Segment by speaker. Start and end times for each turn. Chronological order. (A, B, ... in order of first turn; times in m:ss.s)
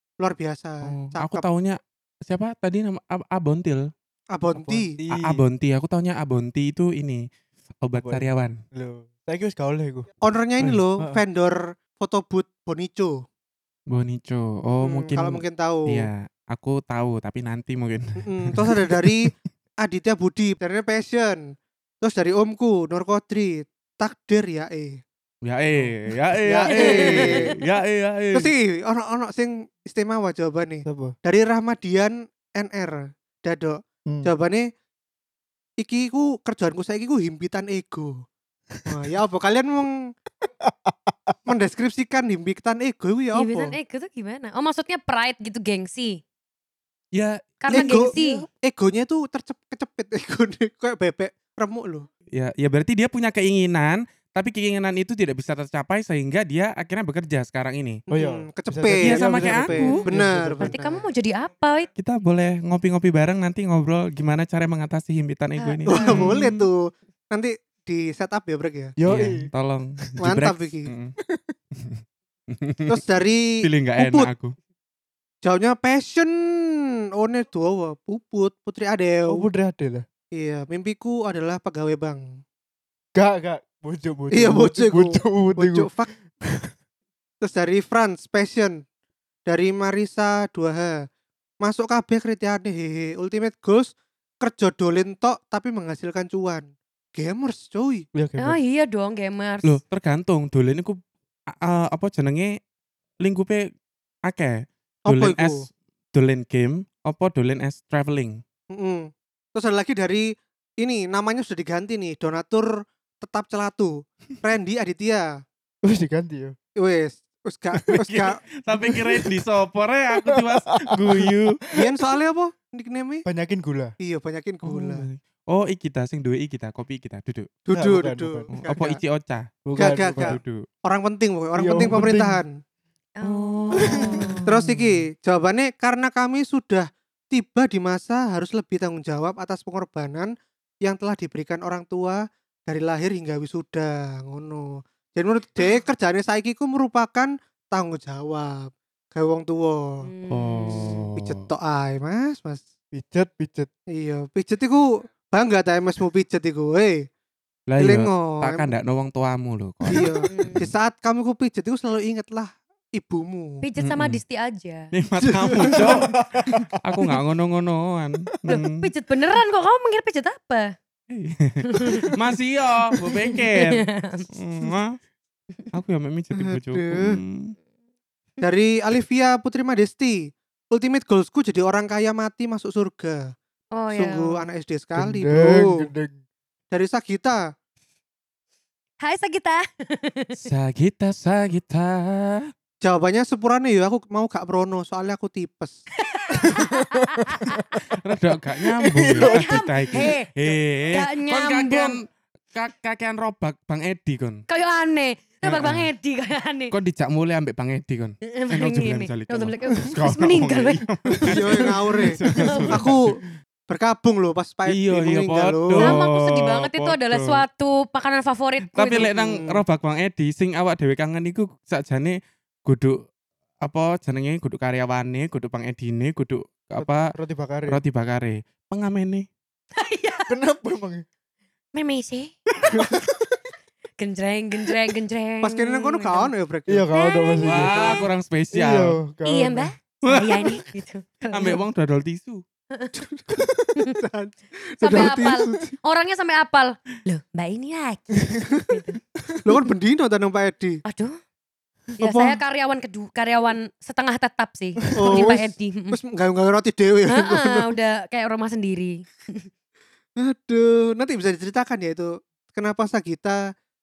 0:00.2-0:01.4 A
0:00.8-0:03.9 B
0:04.3-0:05.0 A
0:04.9-0:05.4 C
0:05.1-0:07.2 B
0:07.8-0:08.6 B
0:07.9-0:10.1 C
0:10.2-0:13.2 A
0:13.9-0:19.3 B
0:14.8-0:16.1 A
0:18.2-0:25.0 A
0:25.4-0:28.5 B
0:26.4-0:27.5 A
0:26.7-0:27.3 D
0:28.3-0:34.7 A
0:30.8-0:31.1 C
0:35.8-0:38.2 A
0:38.8-0:40.1 A
0:40.4-0:41.4 C
0:41.5-0:43.7 A
0:43.3-0:46.2 D
0:47.1-0:48.0 B
0:47.6-0:48.4 D
0:47.7-0:52.1 A
0:52.3-0:58.0 B
0:58.1-1:00.8 A
0:58.1-1:01.0 C
0:59.0-0:59.8 B
0:59.8-1:00.0 D
1:00.6-1:01.9 D
1:02.0-1:06.6 B
1:05.6-1:06.3 D
1:05.9-1:08.9 A
1:09.0-1:09.5 C
1:09.0-1:11.1 B
1:10.2-1:10.9 A
1:11.3-1:11.5 C
1:11.7-1:13.0 B
1:12.9-1:14.3 A
1:13.6-1:14.5 B
1:15.4-1:19.4 A
1:19.3-1:20.0 C
1:20.3-1:22.4 A
1:23.1-1:25.9 C
1:24.3-1:26.1 A
1:27.4-1:28.8 A
1:29.4-1:31.0 A
1:31.6-1:38.0 A
1:38.1-1:38.6 C
1:38.4-1:39.8 D
1:39.6-1:41.0 B
1:41.5-1:42.6 B
1:43.2-1:43.7 B
1:44.3-1:48.4 B
1:45.1-1:45.6 A
1:48.7-1:55.4 A
1:55.8-1:56.5 C
1:56.8-1:58.4 A
1:57.9-2:01.6 B
1:58.7-1:59.4 C
2:00.2-2:01.9 C
2:01.7-2:03.2 A
2:03.2-2:03.9 C
2:04.0-2:05.0 A
2:04.6-2:07.5 B
2:07.6-2:09.0 A
2:07.7-2:08.5 C
2:08.5-2:10.6 B
2:09.6-2:10.4 C
2:09.8-2:12.5 A
2:11.5-2:12.4 C
2:13.2-2:14.5 D
2:13.2-2:14.9 B
2:13.8-2:14.3 C
2:14.4-2:30.1 A
2:30.0-2:31.1 D
2:30.3-2:31.3 B
2:31.2-2:32.6 A
2:32.9-2:33.7 C
2:33.9-2:37.0 A
2:37.7-2:40.7 B
2:37.8-2:38.7 A
2:39.9-2:43.6 A
2:40.3-2:40.6 D
2:43.6-2:44.9 D
2:43.8-2:44.2 B
2:44.9-2:48.9 B
2:45.2-2:46.1 A
2:45.7-2:46.8 C
2:48.5-2:50.7 D
2:51.1-2:55.0 B
2:51.7-2:52.0 D
2:53.3-2:54.3 D
2:55.7-2:57.6 B
2:56.4-2:57.2 A
2:58.4-3:03.3 A
3:03.7-3:04.4 D
3:03.9-3:05.9 A
3:05.0-3:06.2 C
3:06.7-3:07.5 A
3:09.0-3:10.5 D
3:10.4-3:12.5 B
3:12.8-3:15.8 A
3:16.0-3:17.8 D
3:16.4-3:17.6 C
3:17.9-3:24.4 B
3:18.8-3:20.0 C
3:19.2-3:22.0 D
3:24.5-3:26.7 D
3:25.4-3:25.9 B
3:26.7-3:33.0 B
3:28.3-3:31.7 D
3:31.3-3:32.2 A
3:32.3-3:32.8 D
3:32.3-3:32.7 C
3:32.7-3:33.2 A
3:33.7-3:36.0 A
3:34.7-3:37.4 B
3:35.8-3:39.1 D
3:38.7-3:43.0 B
3:39.1-3:39.6 A
3:43.6-3:47.1 B
3:46.8-3:47.8 C
3:47.7-3:49.3 B
3:49.8-3:50.3 D
3:50.3-3:51.0 C
3:51.7-3:53.0 D
3:54.0-3:56.3 D
3:55.4-3:56.9 A
3:56.7-3:57.8 C
3:56.9-3:58.0 D
3:57.4-3:59.0 B
3:58.5-3:59.7 C
3:59.2-4:01.6 D
4:00.1-4:00.6 B
4:01.3-4:02.4 B
4:02.7-4:03.0 D
4:02.9-4:05.6 A
4:03.3-4:03.8 C
4:04.8-4:09.0 D
4:09.4-4:10.8 A
4:10.8-4:11.2 D
4:12.0-4:16.0 D
4:12.0-4:12.4 A
4:14.9-4:15.4 C
4:15.0-4:17.7 A
4:17.1-4:19.4 D
4:20.2-4:23.5 A